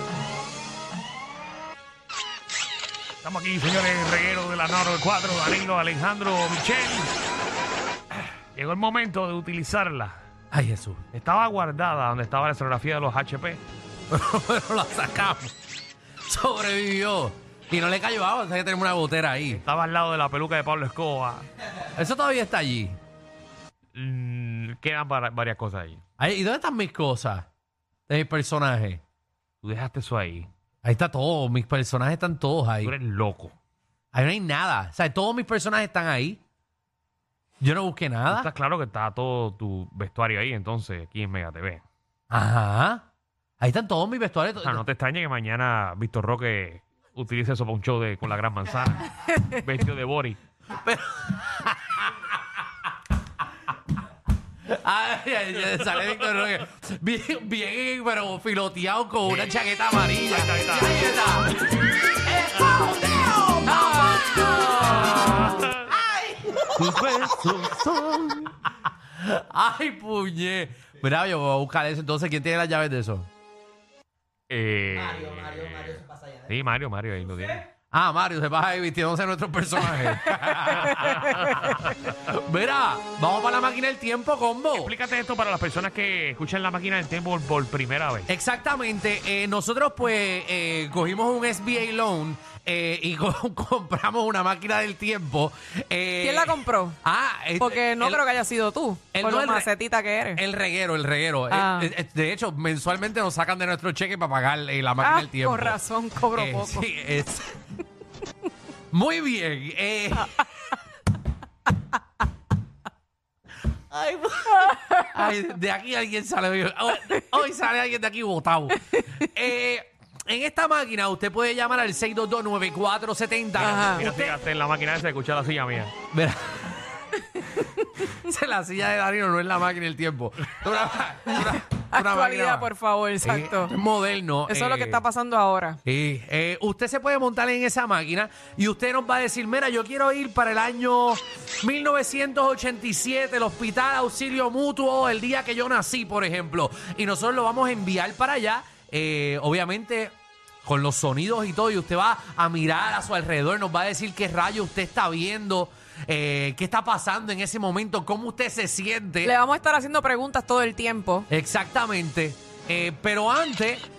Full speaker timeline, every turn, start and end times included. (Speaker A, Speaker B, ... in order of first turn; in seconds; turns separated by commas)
Speaker A: 3.2-7.1, Speaker A: 8.5-10.2, Speaker B: 10.5-11.0, Speaker A: 11.1-13.6, Speaker B: 14.1-15.5, Speaker B: 16.2-19.6, Speaker A: 19.5-21.4, Speaker B: 21.9-23.0, Speaker A: 23.9-26.0, Speaker B: 26.2-27.4, Speaker B: 28.1-29.0, Speaker A: 29.6-30.5, Speaker B: 30.8-32.9, Speaker A: 32.8-33.5, Speaker B: 34.1-36.4, Speaker B: 37.6-38.5, Speaker A: 38.3-41.8, Speaker B: 42.3-43.0, Speaker B: 43.6-44.8, Speaker A: 44.6-50.4, Speaker B: 50.7-52.4, Speaker B: 54.6-73.3, Speaker A: 59.2-59.5, Speaker A: 60.2-61.0, Speaker A: 64.8-65.9, Speaker A: 74.5-77.6, Speaker B: 77.9-84.9, Speaker A: 80.8-82.0, Speaker A: 84.7-88.3, Speaker B: 88.3-98.2, Speaker C: 96.2-97.0, Speaker C: 97.6-100.4, Speaker B: 99.1-99.7, Speaker B: 100.4-105.8, Speaker C: 101.5-101.9, Speaker C: 105.0-106.9, Speaker B: 106.3-107.6, Speaker B: 108.9-110.4, Speaker B: 113.9-124.3, Speaker C: 114.7-115.0, Speaker A: 123.5-125.9, Speaker C: 123.6-124.0, Speaker B: 126.1-126.8, Speaker B: 128.0-132.7, Speaker C: 131.8-133.8, Speaker B: 133.2-135.0, Speaker C: 134.5-135.8, Speaker B: 135.8-159.3, Speaker C: 159.2-161.3, Speaker B: 161.3-163.8